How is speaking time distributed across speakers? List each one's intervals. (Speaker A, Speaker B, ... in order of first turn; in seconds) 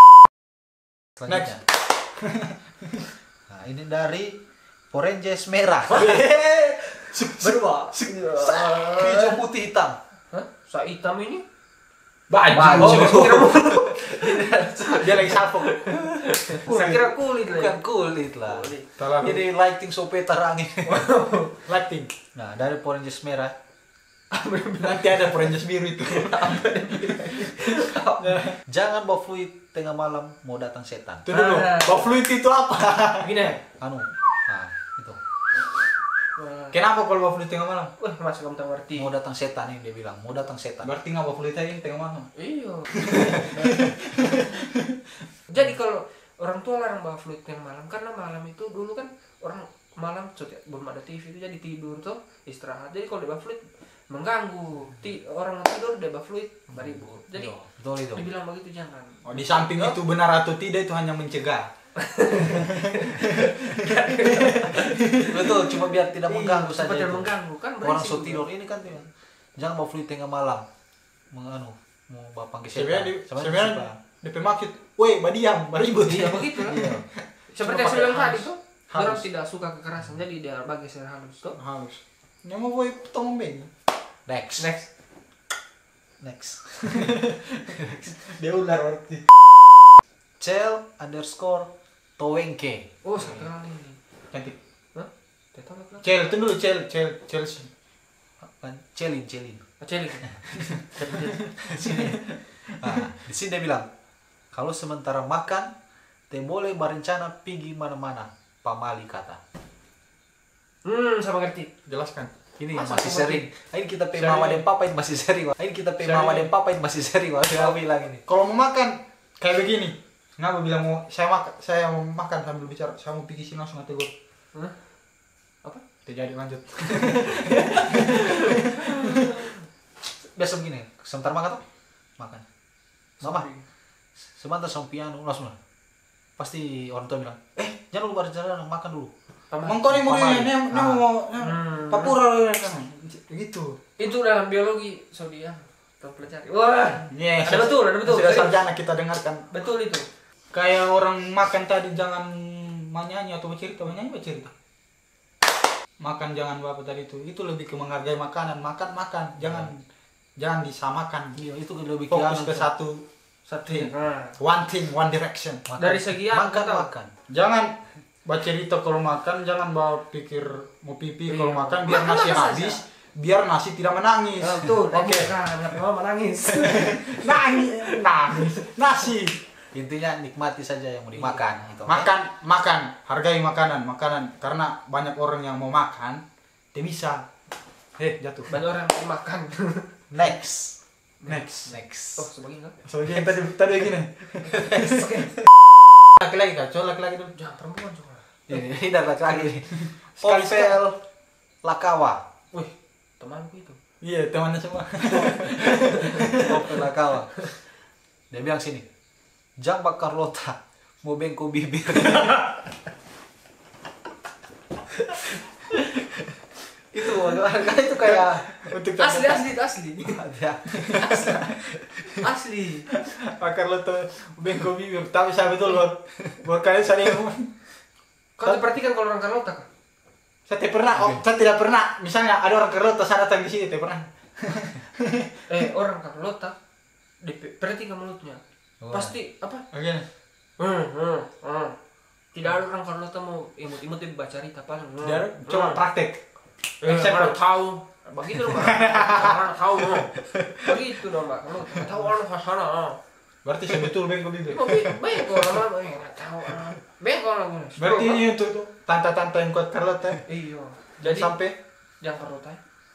Speaker A: 1.2-1.6, 3.5-4.4, 4.9-6.2, 8.0-10.0, 12.5-13.4, 16.7-21.0, 22.3-23.5, 28.7-31.2, 33.8-35.2, 38.9-40.9, 56.8-58.2, 65.2-70.7, 71.3-74.0, 76.7-77.0, 84.3-84.7, 86.2-87.1, 90.4-92.8, 98.4-99.6, 101.7-102.3, 102.8-103.9, 104.5-105.7, 106.3-109.4, 112.6-118.2, 130.3-131.6, 132.2-132.4, 133.2-133.5, 134.2-135.6, 136.4-139.1, 139.9-141.0, 159.4-159.7, 161.3-162.7, 165.7-167.1, 179.7-182.1, 190.1-190.8, 191.7-192.3, 198.5-201.0, 201.6-202.2, 206.4-207.5, 208.3-208.8, 209.6-212.4, 216.9-218.7, 220.0-221.9, 238.8-239.1
Speaker B: 1.2-1.6, 2.1-3.1, 5.9-8.0, 12.3-13.6, 14.9-16.0, 16.6-17.0, 19.0-19.4, 21.7-22.1, 24.8-27.6, 28.2-28.5, 31.2-33.3, 36.7-37.9, 40.8-42.3, 43.1-44.9, 59.2-61.7, 62.5-65.4, 72.7-79.2, 81.5-83.7, 86.9-89.2, 96.0-97.7, 101.8-103.0, 111.8-112.3, 114.1-114.6, 116.0-116.5, 117.5-124.1, 126.0-128.9, 139.6-143.8, 147.1-149.4, 150.5-154.5, 156.0-159.8, 160.4-161.4, 162.1-163.0, 163.6-165.6, 167.3-175.3, 176.6-179.4, 181.8-186.2, 186.7-187.2, 188.1-188.5, 191.3-191.7, 192.8-195.1, 196.2-197.3, 199.7-200.8, 204.0-206.8, 218.0-219.5, 220.8-221.6, 222.9-227.5, 230.5-235.4, 239.7-240.1, 245.0-246.2, 246.8-247.4, 248.5-249.4, 250.4-250.8, 253.4-255.5, 257.8-260.2, 261.0-261.5
Speaker C: 7.4-9.4, 10.3-11.4, 12.6-17.8, 18.4-18.9, 20.8-21.6, 24.3-28.5, 31.3-32.2, 33.2-33.6, 36.4-36.8, 38.0-39.1, 42.4-43.9, 45.5-60.0, 62.0-68.5, 76.0-76.9, 77.5-81.5, 84.6-84.9, 93.0-94.0, 94.9-96.1, 99.8-101.7, 110.8-111.7, 112.7-113.4, 124.5-124.8, 127.6-128.4, 133.2-133.6, 139.5-139.8, 141.4-142.2, 144.0-148.6, 149.5-150.1, 163.5-164.4, 165.8-166.9, 171.3-172.8, 174.4-178.7, 181.1-181.4, 188.5-190.0, 191.2-192.8, 194.4-195.3, 197.3-198.2, 202.5-203.8, 205.9-206.2, 219.0-220.2, 221.0-221.4, 222.2-222.9, 228.4-229.7, 235.5-236.6, 237.2-239.7, 240.6-241.8, 242.3-245.8, 246.8-253.0, 254.5-258.2, 260.3-261.4, 262.0-262.6